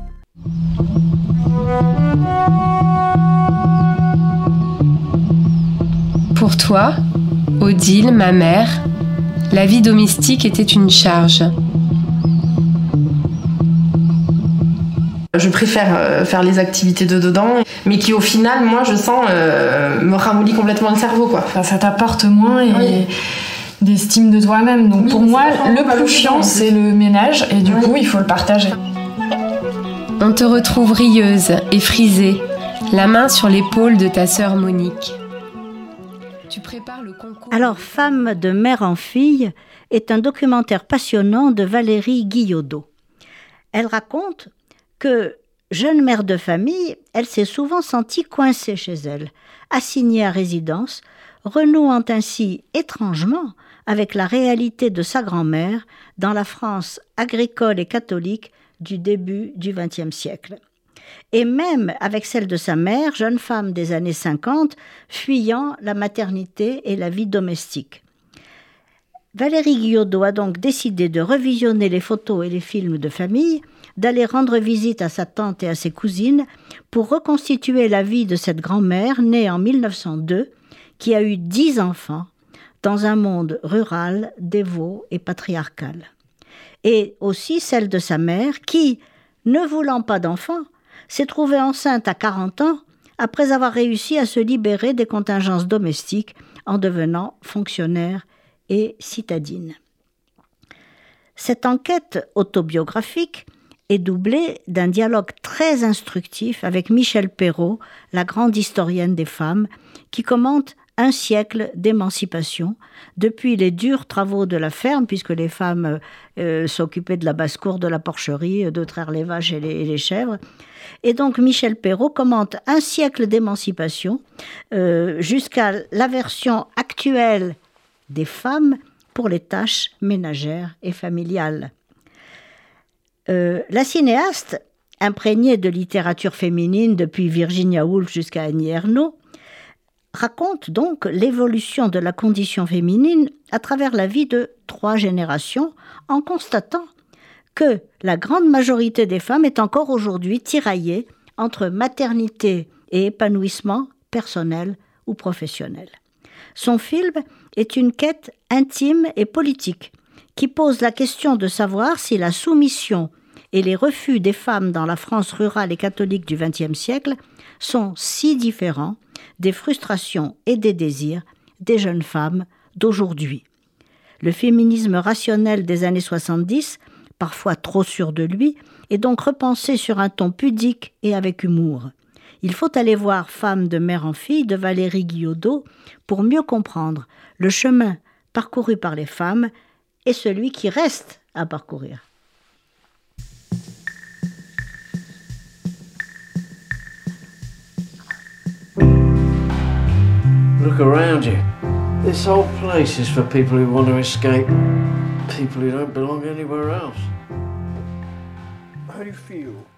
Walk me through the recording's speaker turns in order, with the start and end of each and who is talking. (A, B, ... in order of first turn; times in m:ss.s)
0:06.4-0:07.0 A
0:07.6-0:08.8 A
0:09.5-0:11.5 A
0:15.3-0:21.5 B
0:21.5-0:23.1 C
0:22.7-0:23.0 B
0:23.8-0:28.7 C
0:25.0-0:26.7 B
0:27.6-0:27.9 B
0:30.2-0:35.2 A
0:36.5-0:38.2 A
0:37.5-0:42.9 D
0:43.7-1:00.6 D
1:01.3-1:08.0 D
1:09.3-1:22.3 D
1:22.8-1:26.1 D
1:26.8-1:39.8 D
1:41.4-2:00.4 D
2:01.0-2:07.6 D
2:08.1-2:11.7 D
2:13.3-2:19.2 D
2:20.1-2:26.9 D
2:27.5-2:35.9 D
2:36.5-2:53.4 D
2:54.2-3:09.5 D
3:10.0-3:12.0 D
3:20.6-3:21.4 E
3:22.0-3:24.5 E
3:25.3-3:27.1 E
3:29.0-3:29.6 E